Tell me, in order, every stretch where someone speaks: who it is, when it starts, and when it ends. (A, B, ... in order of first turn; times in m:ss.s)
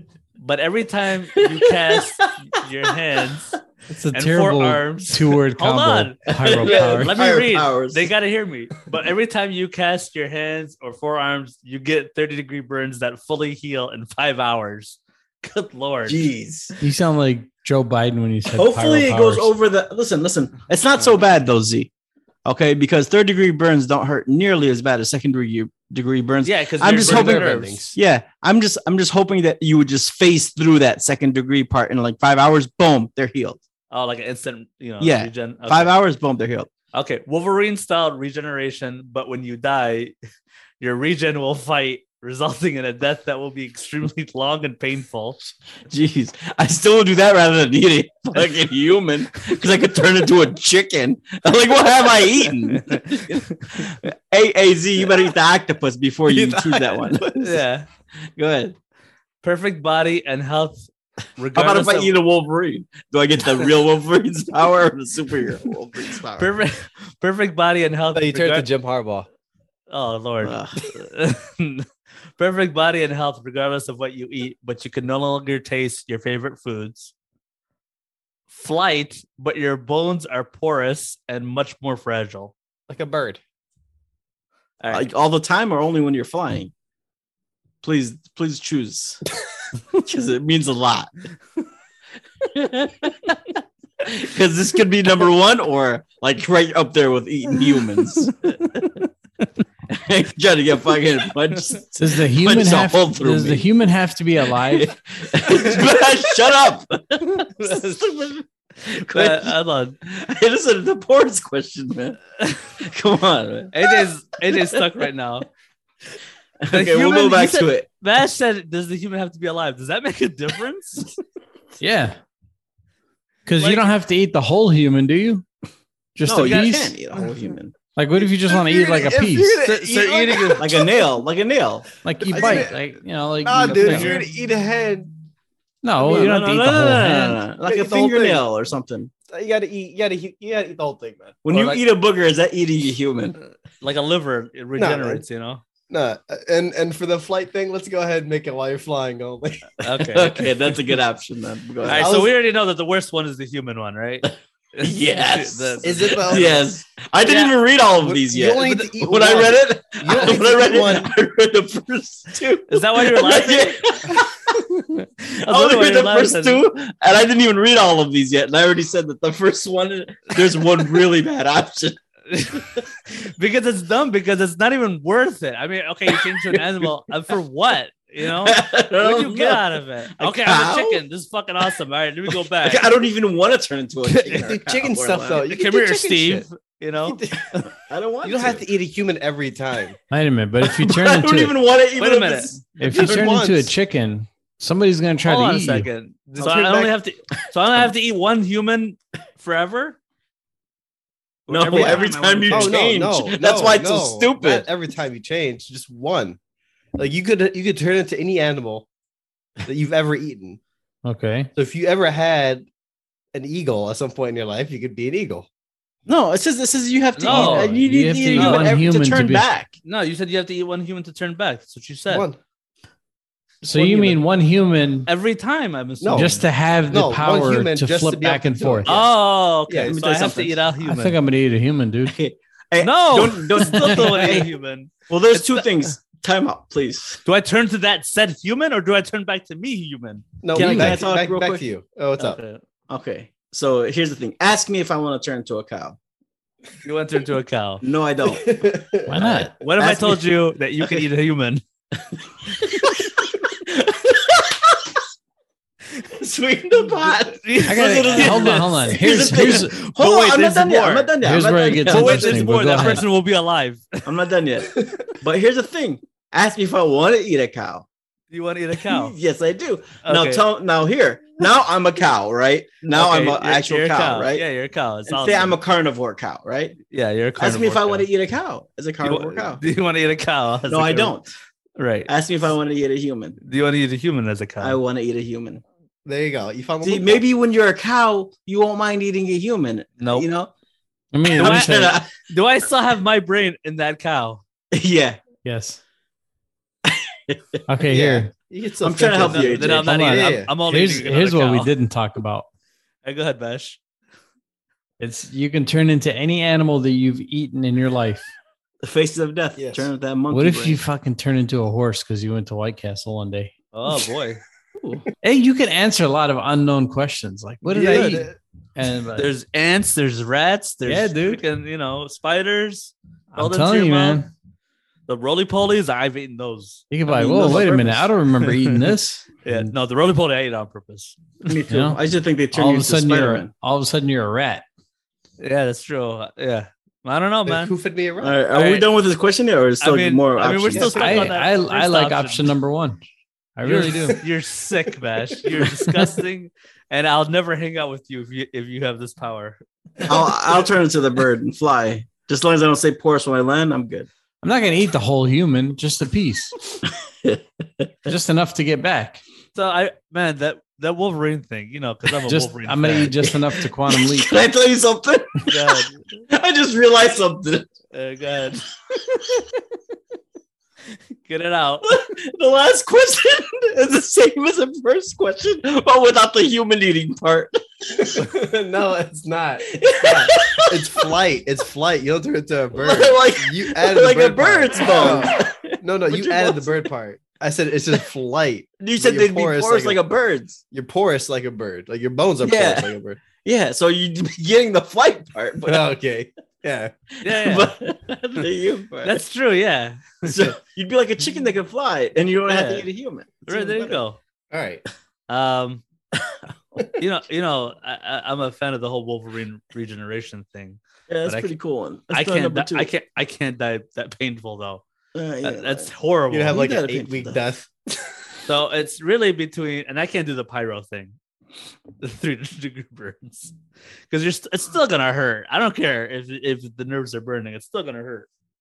0:00.4-0:03.6 A
0:01.4-0:02.3 B
0:03.9-0:07.2 C
0:04.1-0:16.2 A
0:06.3-0:08.1 B
0:16.1-0:16.7 B
0:16.8-0:19.5 C
0:18.5-0:21.9 B
0:22.4-0:33.6 B
0:26.4-0:27.9 A
0:26.9-0:28.0 D
0:33.9-0:36.0 A
0:35.0-0:36.7 B
0:36.9-0:40.1 A
0:40.8-0:45.4 A
0:45.9-0:57.4 B
0:52.4-0:53.8 A
0:56.3-0:57.4 D
0:57.4-0:57.9 A
0:58.4-0:58.7 B
0:59.4-1:00.9 A
1:01.4-1:02.1 A
1:01.5-1:06.5 B
1:06.4-1:08.7 A
1:08.1-1:09.3 D
1:09.9-1:11.9 A
1:10.4-1:10.8 B
1:12.4-1:17.1 A
1:18.5-1:22.5 A
1:22.9-1:23.4 D
1:24.8-1:25.1 A
1:24.9-1:26.7 B
1:27.8-1:29.2 B
1:30.0-1:31.1 B
1:32.6-1:33.3 B
1:34.1-1:38.6 B
1:39.9-1:43.7 B
1:42.0-1:44.9 C
1:44.6-1:52.2 B
1:47.6-1:48.0 A
1:49.1-1:50.0 A
1:52.8-1:54.8 B
1:53.7-1:55.5 A
1:56.6-1:57.9 B
1:56.7-2:01.1 A
2:01.8-2:02.2 C
2:03.5-2:05.4 C
2:03.6-2:03.8 A
2:06.2-2:06.9 C
2:06.2-2:07.7 B
2:06.4-2:06.7 A
2:08.0-2:09.6 C
2:08.2-2:11.0 D
2:09.6-2:10.7 A
2:10.6-2:12.7 B
2:12.0-2:14.1 C
2:12.2-2:12.7 D
2:13.4-2:15.1 D
2:13.6-2:14.3 A
2:15.8-2:17.4 C
2:16.0-2:19.1 B
2:17.7-2:18.4 D
2:19.3-2:21.8 D
2:21.4-2:23.4 B
2:23.8-2:25.6 A
2:24.8-2:25.2 D
2:25.9-2:29.7 D
2:29.8-2:30.7 A
2:30.0-2:32.2 B
2:31.8-2:32.3 D
2:31.8-2:36.4 A
2:34.2-2:44.6 B
2:35.8-2:36.7 D
2:37.2-2:37.5 A
2:38.0-2:41.1 D
2:42.7-2:44.2 A
2:45.4-2:52.0 B
2:45.4-2:46.7 A
2:52.3-3:02.9 A
2:56.2-2:56.6 B
2:58.4-3:01.0 B
3:02.6-3:05.4 B
3:04.1-3:04.5 A
3:04.3-3:06.4 D
3:05.4-3:07.2 A
3:07.1-3:07.6 D
3:07.5-3:08.6 B
3:08.2-3:10.0 D
3:10.1-3:11.6 C
3:10.6-3:13.3 B
3:12.0-3:12.6 A
3:12.8-3:13.7 D
3:12.8-3:15.9 C
3:15.2-3:20.0 A
3:16.3-3:16.9 D
3:21.5-3:22.8 A
3:21.5-3:24.7 B
3:21.7-3:26.4 D
3:27.0-3:28.9 D
3:29.6-3:30.6 D
3:31.0-3:31.5 C
3:31.6-3:32.7 D
3:33.3-3:35.5 D
3:36.1-3:39.7 B
3:37.2-3:37.8 A
3:37.2-3:39.5 C
3:38.4-3:38.7 A
3:39.8-3:42.3 A
3:42.1-3:42.4 D
3:43.6-3:45.1 C
3:43.8-3:44.2 A
3:45.1-3:46.4 A
3:46.0-3:46.4 D
3:46.1-3:48.9 C
3:46.9-3:49.1 D
3:48.9-3:51.2 A
3:49.7-3:50.0 D
3:49.8-3:50.6 B
3:50.8-3:52.1 C
3:52.1-3:54.5 B
3:52.8-3:55.9 A
3:55.1-3:57.2 B
3:57.2-4:01.0 A
4:00.4-4:02.4 D
4:00.5-4:01.6 B
4:02.2-4:02.6 A
4:02.9-4:06.0 B
4:06.8-4:07.8 A
4:07.8-4:08.4 B
4:08.2-4:09.5 D
4:09.1-4:09.5 C
4:09.2-4:10.2 B
4:09.6-4:11.6 A
4:12.6-4:13.1 B
4:13.7-4:14.8 B
4:16.2-4:22.4 B
4:17.3-4:19.0 A
4:17.6-4:19.7 C
4:19.8-4:24.1 A
4:21.2-4:23.1 C
4:24.0-4:27.8 B
4:28.3-4:29.2 A
4:28.8-4:34.4 B
4:30.0-4:30.4 A
4:32.9-4:35.6 A
4:35.1-4:36.8 B
4:36.9-4:38.1 A
4:37.4-4:39.6 B
4:39.0-4:41.2 A
4:40.7-4:41.3 B
4:41.8-4:42.1 A
4:42.1-4:43.4 B
4:43.4-4:44.8 A
4:44.6-4:45.6 B
4:46.0-4:47.3 D
4:46.8-4:50.5 B
4:50.0-4:50.3 A
4:51.1-4:52.0 C
4:51.4-4:52.1 B
4:51.4-4:54.4 A
4:54.7-4:55.2 B
4:55.4-4:55.8 C
4:56.9-4:57.6 B
4:57.7-4:58.3 C
4:57.9-5:00.5 D
4:58.8-4:59.9 B
4:59.3-5:01.7 A
4:59.8-5:02.4 C
5:03.0-5:03.8 A
5:05.0-5:08.3 C
5:08.8-5:10.8 B
5:09.6-5:09.9 D
5:10.3-5:13.5 C
5:13.7-5:14.4 A
5:15.2-5:19.3 C
5:17.6-5:18.4 D
5:19.2-5:24.3 A
5:20.9-5:21.4 C
5:23.3-5:24.3 C
5:25.1-5:26.9 A
5:26.9-5:29.7 C
5:27.1-5:28.1 B
5:28.4-5:28.9 A
5:29.4-5:31.5 A
5:31.4-5:33.5 B
5:31.7-5:32.0 C
5:32.5-5:34.6 C
5:35.4-5:37.7 A
5:37.5-5:38.4 D
5:38.2-5:41.3 B
5:38.5-5:38.9 A
5:39.8-5:42.5 A
5:40.7-5:41.2 D
5:40.8-5:43.0 C
5:43.6-5:44.2 C
5:43.6-5:50.1 A
5:45.5-5:46.2 D
5:50.1-5:54.1 B
5:54.4-5:56.6 C
5:57.2-5:57.9 B
5:58.1-5:59.2 C
5:59.6-6:03.2 A
6:02.3-6:04.4 C
6:03.9-6:05.8 B
6:05.5-6:06.2 A
6:06.3-6:07.7 B
6:07.9-6:08.6 A
6:11.2-6:12.0 A
6:11.9-6:17.5 B
6:18.0-6:30.0 D
6:19.6-6:21.1 B
6:22.7-6:26.9 B
6:28.8-6:30.6 B
6:30.7-6:33.2 D
6:32.4-6:35.9 B
6:35.7-6:36.9 D
6:37.2-6:37.8 A
6:37.3-6:39.2 B
6:39.0-6:40.6 A
6:40.2-6:44.0 B
6:42.4-6:42.9 A
6:43.4-6:44.2 A
6:44.5-6:44.8 D
6:45.3-6:45.8 A
6:47.0-6:51.5 A
6:51.1-6:52.9 B
6:52.1-6:54.8 A
6:55.2-6:55.9 B
6:55.4-6:56.6 A
6:56.3-6:57.7 D
6:56.5-6:57.4 B
6:58.4-7:01.2 A
7:02.0-7:03.6 A
7:04.1-7:08.3 A